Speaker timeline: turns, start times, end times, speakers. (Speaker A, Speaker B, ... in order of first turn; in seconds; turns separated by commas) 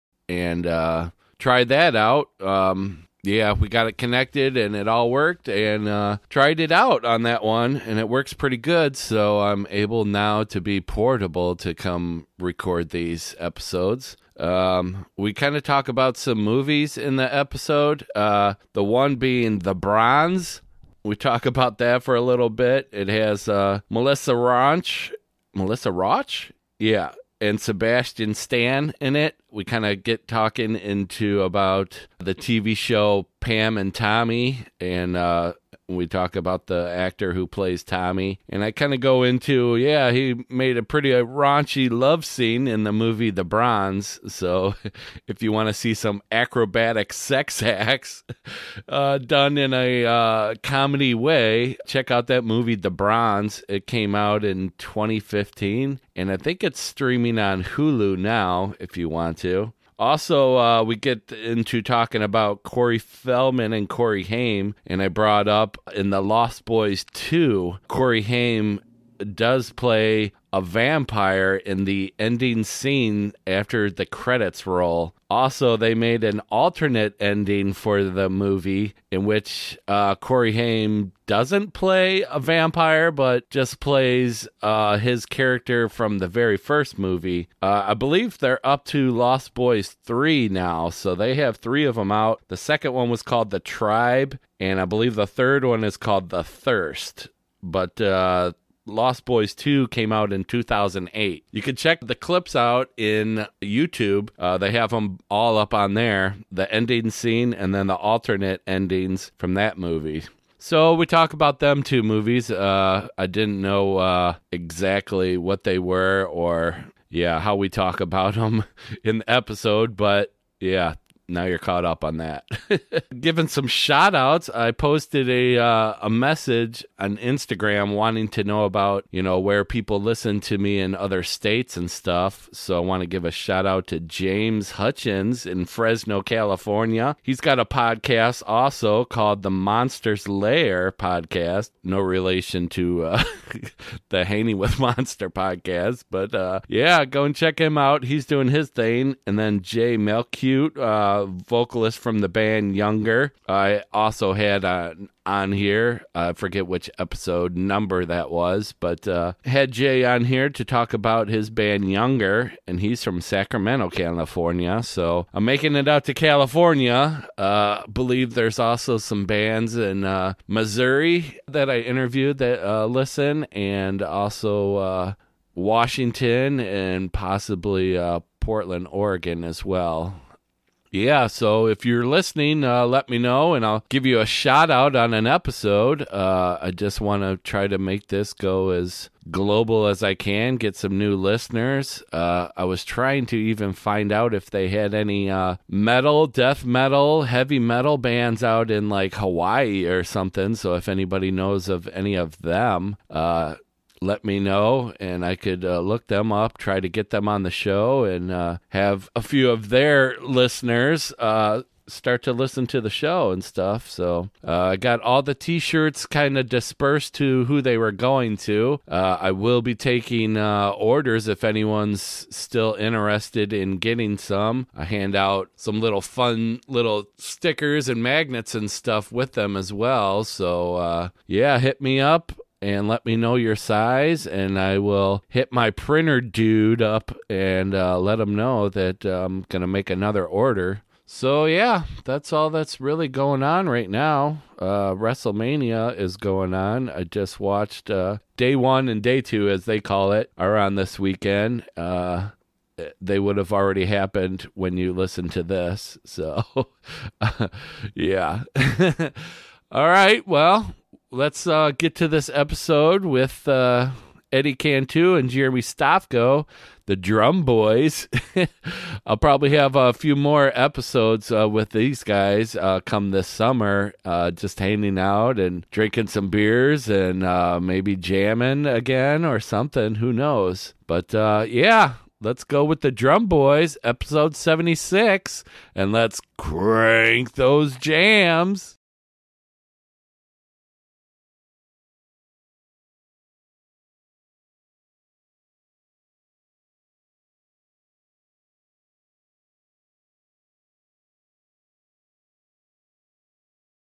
Speaker A: 0.3-180.2, Speaker A: 180.9-288.8